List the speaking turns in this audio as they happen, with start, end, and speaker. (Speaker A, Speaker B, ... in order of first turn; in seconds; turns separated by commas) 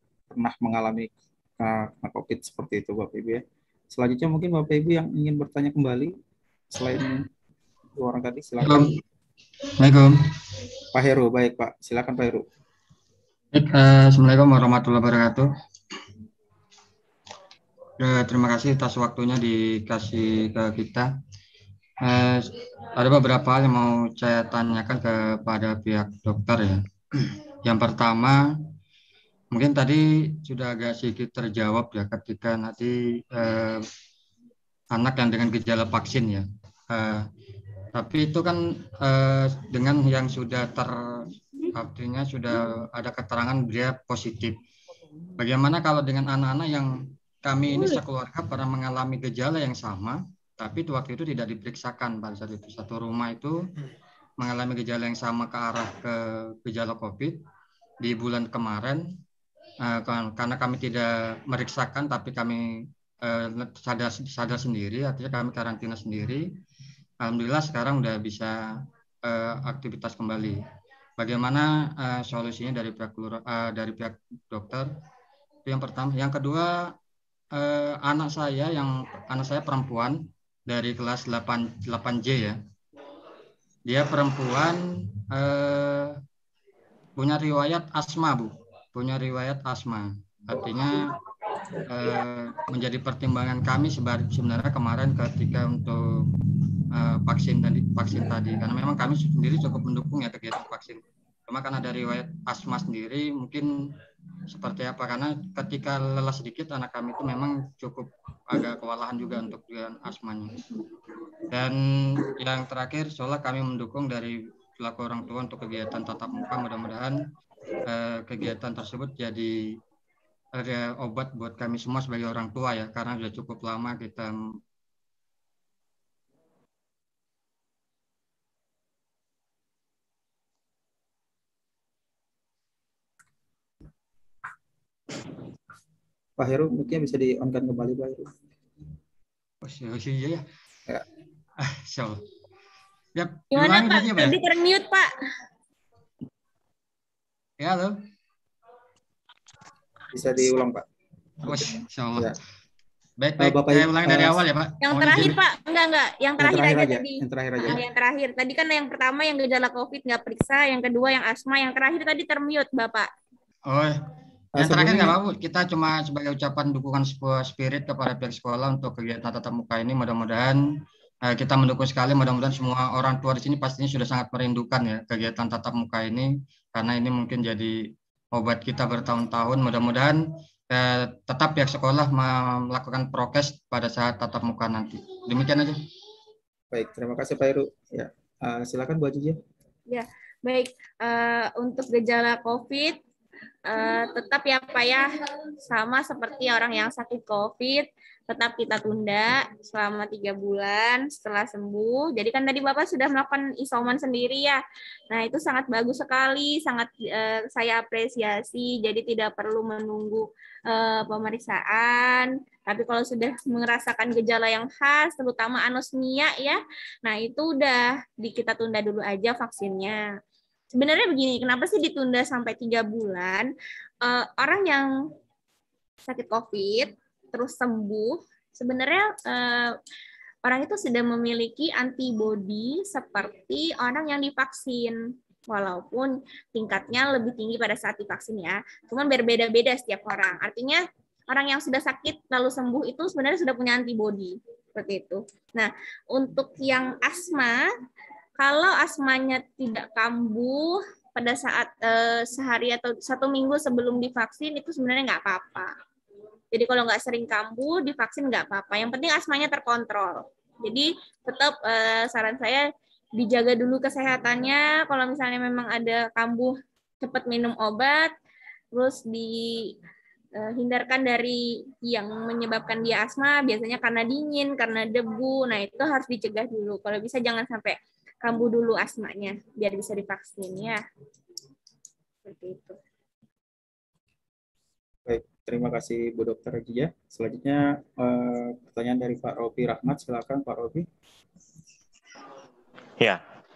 Speaker A: 0.3-6.1, Speaker A: 6.7-7.3, Speaker A: 8.0-8.9, Speaker B: 8.6-8.9, Speaker B: 9.8-10.1, Speaker A: 10.9-12.4, Speaker B: 13.5-15.5, Speaker B: 18.0-21.1, Speaker B: 22.0-26.8, Speaker B: 27.6-28.5, Speaker B: 29.5-33.9, Speaker B: 34.9-37.3, Speaker B: 37.9-44.6, Speaker B: 45.4-46.9, Speaker B: 47.4-53.6, Speaker B: 54.4-57.4, Speaker B: 58.0-59.0, Speaker B: 59.8-66.5, Speaker B: 67.2-70.6, Speaker B: 71.2-74.9, Speaker B: 75.7-77.0, Speaker B: 77.5-82.6, Speaker B: 83.9-86.2, Speaker B: 87.2-91.1, Speaker B: 91.9-96.3, Speaker B: 96.9-103.9, Speaker B: 104.5-110.6, Speaker B: 111.5-117.2, Speaker B: 117.8-119.5, Speaker B: 120.5-124.4, Speaker A: 136.4-138.3, Speaker B: 139.6-140.4, Speaker B: 141.6-142.2, Speaker B: 143.2-144.4, Speaker C: 143.5-145.1, Speaker B: 147.6-148.0, Speaker A: 150.1-150.8, Speaker A: 151.4-152.3, Speaker B: 151.4-152.3, Speaker B: 153.2-155.4, Speaker A: 153.4-154.4, Speaker C: 154.8-163.1, Speaker A: 156.4-157.8, Speaker B: 163.7-164.0, Speaker A: 164.6-165.2, Speaker B: 164.6-170.6, Speaker B: 171.3-185.8, Speaker A: 186.7-189.4, Speaker C: 189.9-193.0, Speaker C: 193.7-195.1, Speaker C: 195.7-204.6, Speaker C: 205.1-220.0, Speaker C: 220.8-223.5, Speaker C: 224.0-224.9, Speaker C: 226.0-229.7, Speaker C: 230.4-247.7, Speaker C: 248.4-255.7, Speaker C: 256.5-262.6, Speaker C: 263.2-268.1, Speaker C: 268.7-269.7, Speaker C: 270.4-280.8, Speaker C: 282.2-282.8, Speaker A: 285.1-290.9